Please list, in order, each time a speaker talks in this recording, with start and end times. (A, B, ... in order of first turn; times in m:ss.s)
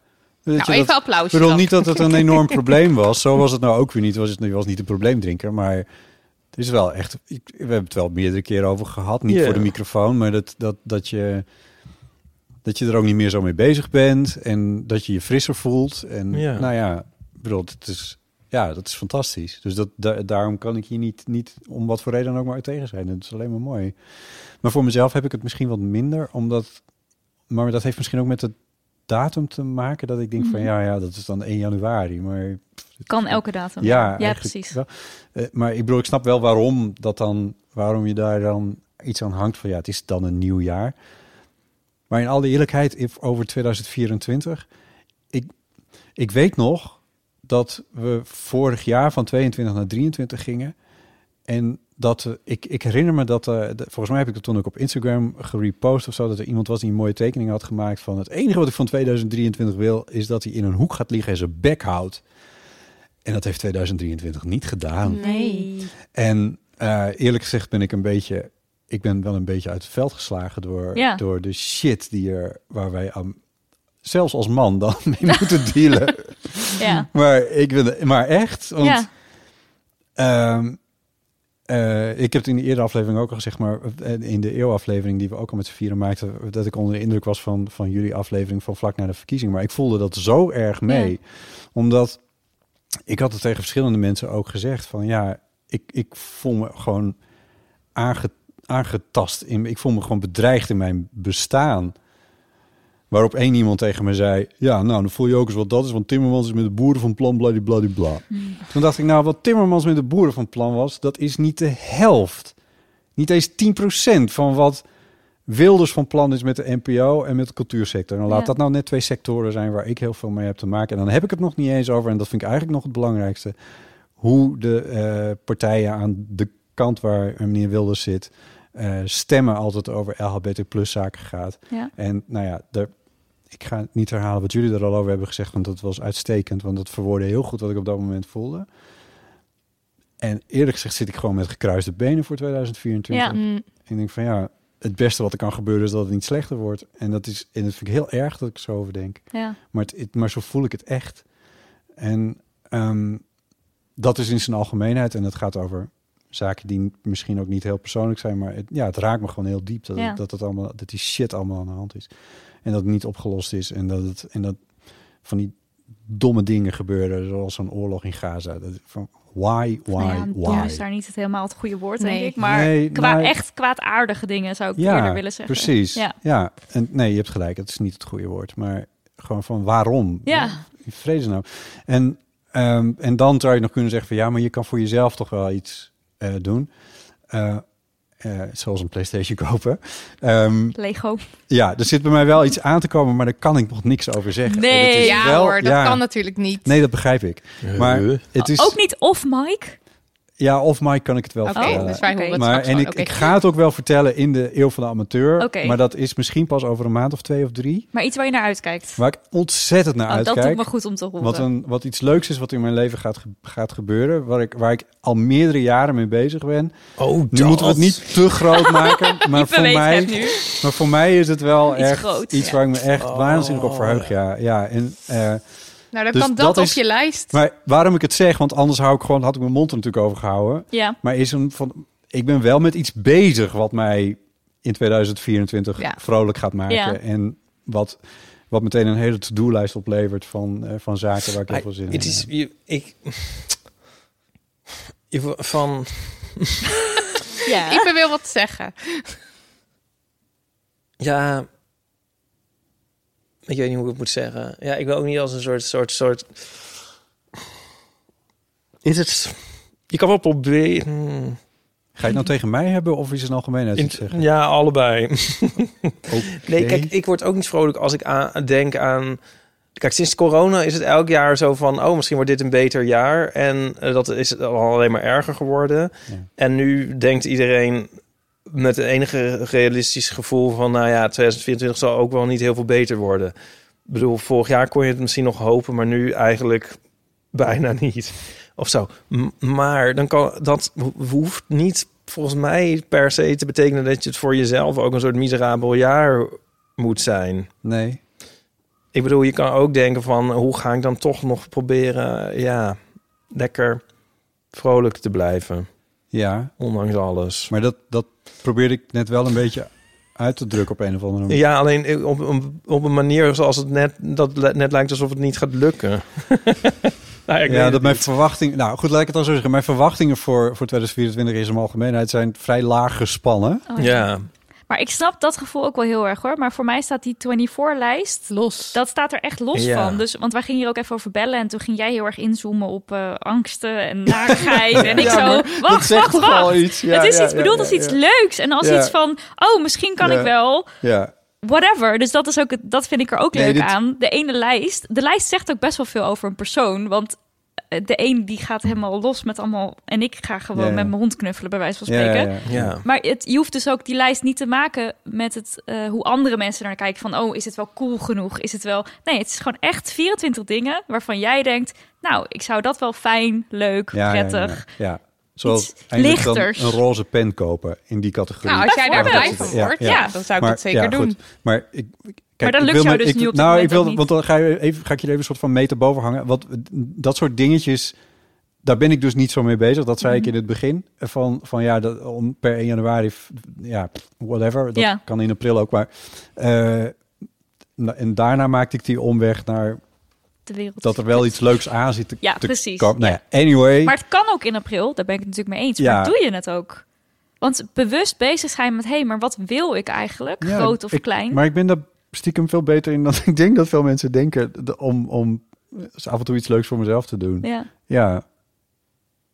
0:00.4-0:05.9 A
0:00.6-0:02.5 B
0:06.5-0:11.4 A
0:09.3-0:09.7 C
0:12.6-0:24.0 A
0:16.3-0:16.7 C
0:24.6-0:26.8 A
0:27.5-0:28.5 A
0:29.1-0:40.9 A
0:30.4-0:30.7 D
0:33.1-0:34.8 D
0:42.1-0:44.6 A
0:46.2-0:50.7 A
0:51.5-1:02.2 A
1:03.2-1:05.3 A
1:05.1-1:05.7 B
1:05.2-1:05.9 D
1:06.1-1:13.4 A
1:10.9-1:11.2 D
1:14.0-1:19.0 A
1:16.8-1:17.1 D
1:18.8-1:19.1 D
1:20.2-1:20.8 A
1:21.7-1:32.2 A
1:30.9-1:31.1 D
1:33.0-1:37.2 A
1:37.9-1:41.9 A
1:43.1-1:52.5 A
1:48.3-1:48.6 D
1:53.2-1:54.8 A
1:55.5-2:03.5 A
2:04.2-2:12.9 A
2:13.5-2:18.7 A
2:20.2-2:31.2 A
2:23.1-2:23.4 D
2:23.3-2:23.6 B
2:29.3-2:29.6 D
2:32.0-2:33.2 A
2:34.0-2:42.1 A
2:42.6-2:44.6 A
2:45.2-2:45.5 A
2:46.0-2:50.8 A
2:50.0-2:56.2 D
2:52.0-2:52.4 B
2:52.4-2:53.3 A
2:54.8-3:06.7 A
3:00.2-3:00.6 D
3:07.3-3:07.6 A
3:08.2-3:10.8 A
3:10.7-3:11.2 D
3:11.5-3:16.0 A
3:14.5-3:15.4 D
3:15.0-3:16.7 B
3:16.6-3:18.8 A
3:17.6-3:18.2 C
3:18.4-3:19.8 D
3:20.4-3:27.9 A
3:21.4-3:23.3 B
3:21.5-3:22.4 D
3:25.4-3:25.8 D
3:27.9-3:29.0 D
3:29.0-3:30.7 A
3:30.1-3:31.5 D
3:31.2-3:36.8 A
3:37.0-3:38.3 C
3:37.3-3:45.4 A
3:38.6-3:40.5 D
3:41.7-3:42.6 D
3:43.0-3:44.1 C
3:45.9-3:47.4 B
3:46.1-4:02.3 A
3:50.7-3:51.0 D
3:56.7-3:57.0 D
4:01.5-4:03.6 C
4:05.1-4:06.6 C
4:07.4-4:07.8 D
4:07.5-4:09.1 B
4:11.0-4:11.5 C
4:13.4-4:16.7 C
4:18.8-4:21.4 C
4:22.0-4:24.2 A
4:23.8-4:29.2 C
4:26.1-4:26.9 A
4:29.8-4:37.9 C
4:38.5-4:43.3 C
4:43.9-4:46.8 C
4:47.3-4:57.5 C
4:57.6-4:58.0 A
4:58.9-5:02.8 C
5:03.3-5:03.8 C
5:04.5-5:05.7 C
5:06.1-5:06.5 A
5:06.6-5:07.5 C
5:07.5-5:11.4 A
5:11.3-5:18.1 C
5:17.4-5:23.6 A
5:23.7-5:24.1 D
5:23.8-5:24.3 C
5:24.7-5:40.7 D
5:28.3-5:28.8 B
5:29.5-5:30.0 C
5:34.1-5:38.0 A
5:34.8-5:35.1 C
5:38.6-5:38.9 A
5:40.0-5:41.1 A
5:41.4-5:47.2 D
5:43.3-5:43.7 A
5:47.7-6:04.6 D
5:50.5-5:50.9 A
5:51.8-5:52.8 A
5:52.5-5:52.8 C
6:03.9-6:18.0 A
6:05.4-6:06.8 D
6:08.4-6:11.2 B
6:08.7-6:10.1 D
6:12.4-6:14.0 D
6:18.6-6:27.0 A
6:20.0-6:20.3 D
6:24.8-6:25.0 D
6:27.8-6:29.8 A
6:30.4-6:31.4 D
6:30.8-6:33.9 A
6:32.2-6:33.2 D
6:33.8-6:36.8 D
6:35.8-6:36.1 A
6:37.4-6:41.4 D
6:40.4-6:48.2 A
6:47.4-6:47.7 D